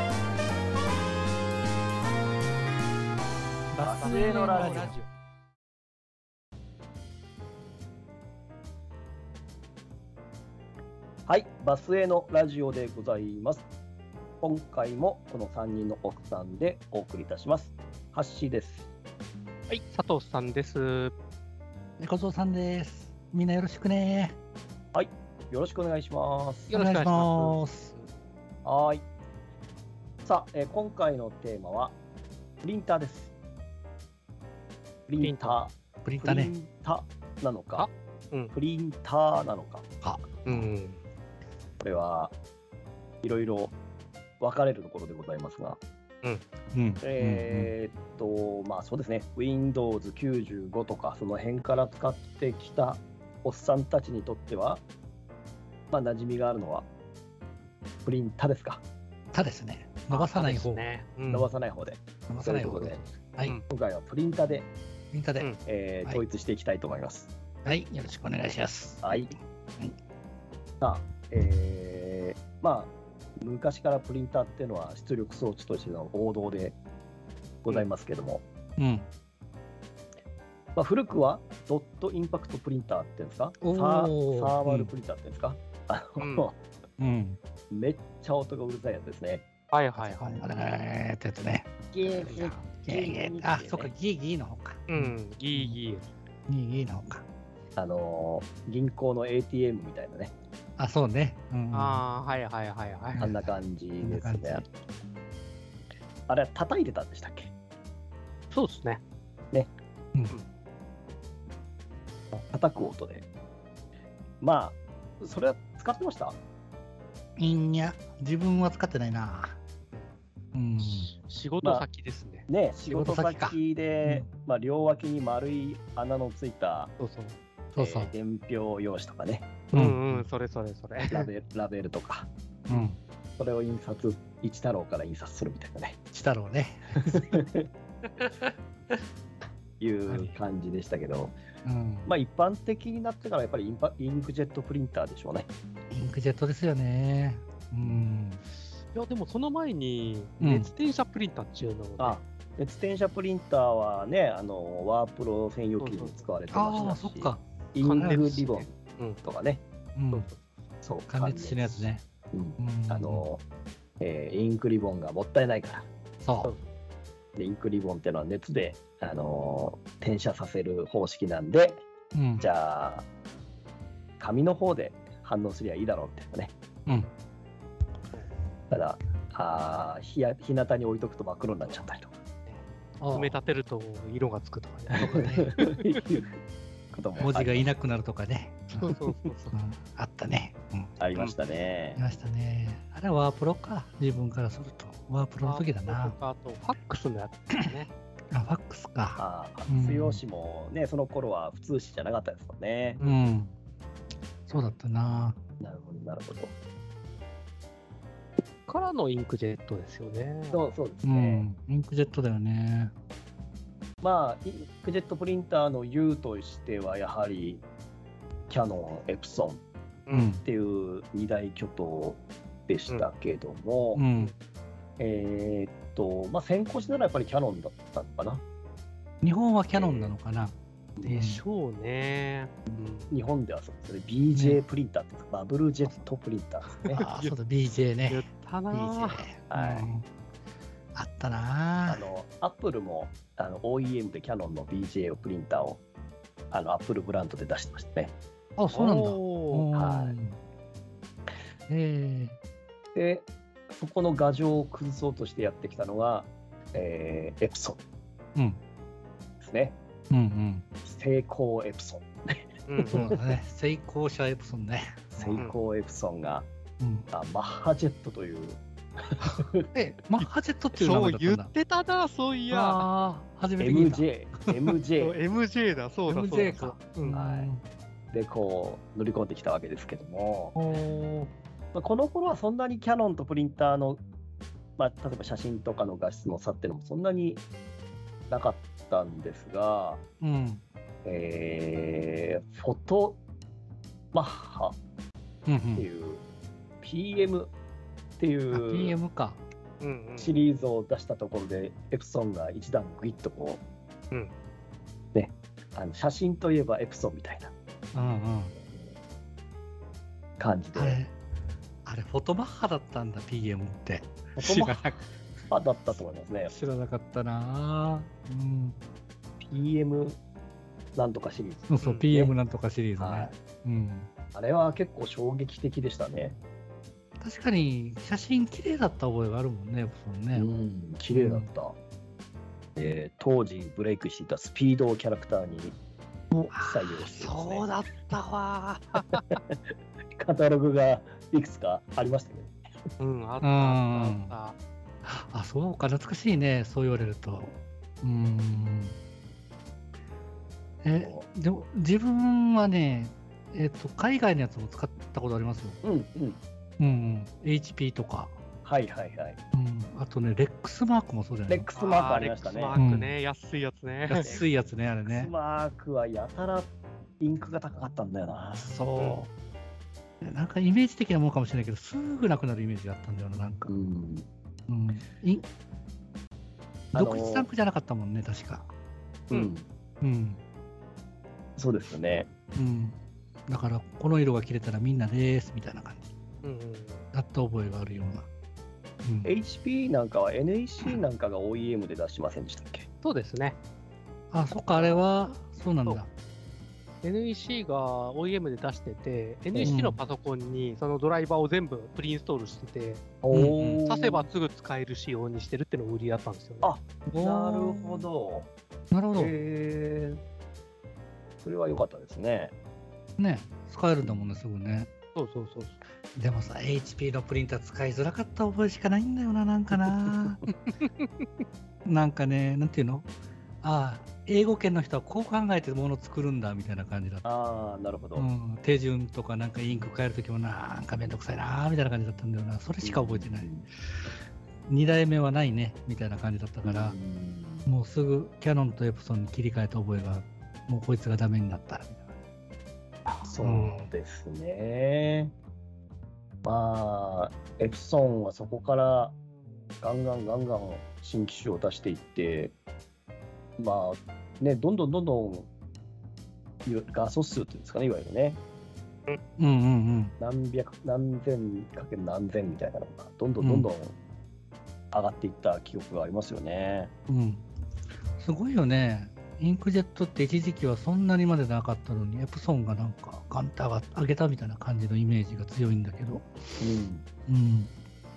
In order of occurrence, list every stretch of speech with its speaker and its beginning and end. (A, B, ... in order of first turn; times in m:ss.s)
0:03.7-0:05.0 A
0:03.8-0:05.0 B
0:04.0-0:05.1 C
0:11.2-0:13.6 B
0:14.4-0:18.9 B
0:19.7-0:21.1 C
0:22.0-0:24.4 A
0:24.9-0:26.7 B
0:26.7-0:28.1 C
0:26.7-0:27.9 A
0:28.6-0:29.0 B
0:30.2-0:32.0 B
0:32.6-0:33.3 B
0:35.1-0:37.9 B
0:35.2-0:35.6 C
0:36.0-0:36.5 A
0:37.7-0:38.5 C
0:38.5-0:39.8 B
0:40.0-0:40.7 A
0:40.4-0:41.0 C
0:41.8-0:42.3 B
0:43.2-0:43.7 B
0:44.4-0:45.8 B
0:46.7-0:47.7 A
0:47.0-0:54.8 B
0:55.9-0:56.9 B
0:58.0-0:58.8 B
0:59.3-1:00.8 A
1:00.1-1:01.5 C
1:01.3-1:03.0 B
1:02.3-1:03.6 A
1:03.7-1:04.7 B
1:05.1-1:05.5 A
1:05.6-1:07.3 B
1:07.6-1:09.9 A
1:09.0-1:09.4 B
1:10.8-1:16.8 B
1:17.6-1:18.4 B
1:18.8-1:19.1 A
1:20.7-1:26.6 B
1:23.6-1:24.9 A
1:26.2-1:26.5 C
1:27.0-1:27.4 A
1:27.7-1:29.4 B
1:29.7-1:30.5 C
1:29.9-1:35.8 A
1:31.9-1:33.9 B
1:32.3-1:32.5 C
1:34.9-1:36.1 C
1:36.5-1:37.2 A
1:37.8-1:40.3 B
1:40.8-1:42.0 A
1:41.7-1:43.3 C
1:43.1-1:44.7 A
1:43.2-1:44.6 B
1:46.3-1:47.5 B
1:48.5-1:49.0 C
1:52.3-1:53.2 B
1:54.4-1:56.4 B
1:57.4-1:59.6 A
2:00.5-2:01.1 A
2:00.8-2:02.5 C
2:02.5-2:06.9 B
2:02.8-2:04.3 A
2:07.0-2:07.4 C
2:07.7-2:08.1 A
2:07.8-2:09.5 B
2:09.7-2:11.3 C
2:09.7-2:10.3 A
2:11.1-2:12.3 B
2:12.7-2:13.0 A
2:13.4-2:16.0 B
2:16.1-2:17.3 A
2:17.2-2:17.6 B
2:18.2-2:18.5 A
2:19.8-2:21.3 B
2:20.1-2:20.4 A
2:21.6-2:22.1 A
2:22.0-2:25.5 B
2:25.9-2:28.4 A
2:28.9-2:32.2 C
2:30.4-2:30.7 A
2:32.0-2:39.6 B
2:35.8-2:36.9 C
2:36.5-2:37.4 A
2:37.8-2:39.2 C
2:40.0-2:40.3 A
2:40.1-2:40.4 C
2:40.8-2:43.4 B
2:41.1-2:42.0 A
2:42.6-2:43.3 A
2:44.0-2:45.9 B
2:46.2-2:46.5 A
2:47.4-2:51.8 B
2:52.1-2:52.5 A
2:52.4-2:53.0 B
2:54.2-2:56.5 B
2:58.7-3:02.1 B
3:02.4-3:05.8 C
3:03.0-3:03.4 A
3:04.9-3:06.3 B
3:05.0-3:05.6 A
3:06.9-3:07.7 B
3:07.2-3:09.0 A
3:08.8-3:09.6 C
3:09.5-3:11.0 A
3:11.0-3:12.0 B
3:12.0-3:16.2 A
3:15.4-3:17.9 C
3:18.3-3:20.2 A
3:19.2-3:23.0 B
3:23.0-3:23.4 C
3:23.0-3:23.5 A
3:24.5-3:25.4 A
3:25.6-3:26.5 B
3:28.6-3:30.7 C
3:30.5-3:31.5 B
3:31.0-3:32.9 A
3:34.0-3:37.6 B
3:38.5-3:39.6 B
3:40.1-3:40.3 C
3:40.1-3:40.4 A
3:40.4-3:44.0 B
3:43.9-3:44.3 A
3:45.0-3:48.4 B
3:49.2-3:51.4 A
3:49.7-3:50.1 B
3:51.0-3:53.2 C
3:52.7-3:57.0 B
3:54.3-3:54.6 A
3:56.7-3:57.4 C
3:57.0-4:00.0 A
3:58.1-3:59.3 C
3:59.5-3:59.9 B
4:00.9-4:02.0 A
4:01.9-4:05.8 B
4:06.5-4:08.1 B
4:08.6-4:10.4 A
4:08.7-4:09.7 C
4:09.7-4:10.1 B
4:11.7-4:12.4 A
4:12.9-4:17.8 B
4:19.4-4:19.8 B
4:20.1-4:20.6 A
4:20.8-4:23.3 B
4:22.7-4:23.0 C
4:22.9-4:25.4 A
4:25.1-4:26.5 B
4:26.8-4:27.1 A
4:27.1-4:29.6 B
4:29.7-4:31.5 A
4:30.7-4:32.9 C
4:32.5-4:34.1 A
4:33.6-4:35.2 B
4:35.0-4:37.2 C
4:36.1-4:37.6 A
4:37.1-4:37.5 B
4:38.1-4:40.5 B
4:40.6-4:41.3 A
4:41.7-4:44.0 B
4:44.8-4:47.4 B
4:48.3-4:50.0 B
4:50.2-4:50.6 A
4:51.0-4:53.2 B
4:54.1-4:54.8 B
4:55.4-4:55.9 A
4:55.7-4:56.2 B
4:56.8-4:57.5 B
4:58.2-4:59.0 B
4:58.5-4:59.4 A
4:59.8-5:00.4 C
5:00.2-5:03.6 B
5:05.1-5:07.5 B
5:07.9-5:08.5 A
5:10.4-5:11.0 B
5:10.7-5:11.1 A
5:11.8-5:15.1 A
5:14.4-5:16.5 B
5:16.5-5:18.8 A
5:19.4-5:20.2 B
5:21.0-5:22.3 B
5:21.7-5:24.1 A
5:21.8-5:22.1 C
5:22.9-5:23.4 B
5:24.3-5:26.4 B
5:27.2-5:30.5 A
5:30.3-5:31.8 B
5:31.1-5:31.5 A
5:32.8-5:35.8 B
5:36.5-5:37.3 A
5:36.5-5:37.7 B
5:37.3-5:39.2 C
5:39.3-5:39.6 B
5:40.2-5:42.5 B
5:43.0-5:44.6 C
5:43.4-5:44.4 A
5:45.0-5:48.9 A
5:50.8-5:55.8 A
5:51.0-5:51.3 B
5:55.8-5:56.4 B
5:56.8-5:58.4 A
5:58.6-5:59.4 B
5:59.5-6:01.7 A
6:01.5-6:02.8 B
6:01.7-6:04.4 C
6:02.7-6:03.1 A
6:04.1-6:05.3 A
6:05.0-6:09.1 B
6:08.6-6:09.3 A
6:10.2-6:13.7 A
6:13.7-6:14.3 B
6:14.7-6:15.4 A
6:16.9-6:17.5 B
6:16.9-6:18.7 A
6:19.3-6:19.6 B
6:20.0-6:20.4 A
6:21.6-6:22.3 B
6:22.5-6:26.1 A
6:26.4-6:27.0 C
6:27.1-6:28.3 A
6:29.0-6:29.3 A
6:29.2-6:32.9 B
6:33.0-6:33.6 C
6:34.3-6:36.1 A
6:34.6-6:35.1 B
6:37.0-6:43.0 C
6:39.6-6:40.0 A
6:43.2-6:44.2 B
6:43.3-6:43.8 A
6:43.8-6:46.7 C
6:46.6-6:48.5 B
6:47.1-6:48.1 A
6:48.9-6:49.3 A
6:49.1-6:50.2 B
6:51.4-6:52.5 B
6:53.2-6:54.9 A
6:54.0-6:54.4 B
6:55.1-6:55.8 C
6:56.2-7:00.4 A
7:00.8-7:01.3 C
7:01.8-7:03.1 A
7:03.6-7:07.2 A
7:07.2-7:08.3 B
7:08.1-7:13.5 A
7:12.8-7:13.7 B
7:14.7-7:17.0 A
7:16.6-7:17.7 B
7:17.6-7:22.1 A
7:23.2-7:25.3 B
7:23.4-7:23.9 A
7:26.4-7:29.2 B
7:29.8-7:32.5 B
7:33.6-7:35.5 B
7:36.6-7:38.4 B
7:39.4-7:40.1 A
7:40.2-7:44.0 B
7:43.4-7:43.7 A
7:44.9-7:46.9 B
7:47.1-7:47.4 A
7:48.2-7:56.3 A
7:56.6-7:57.0 B
7:57.3-7:57.7 A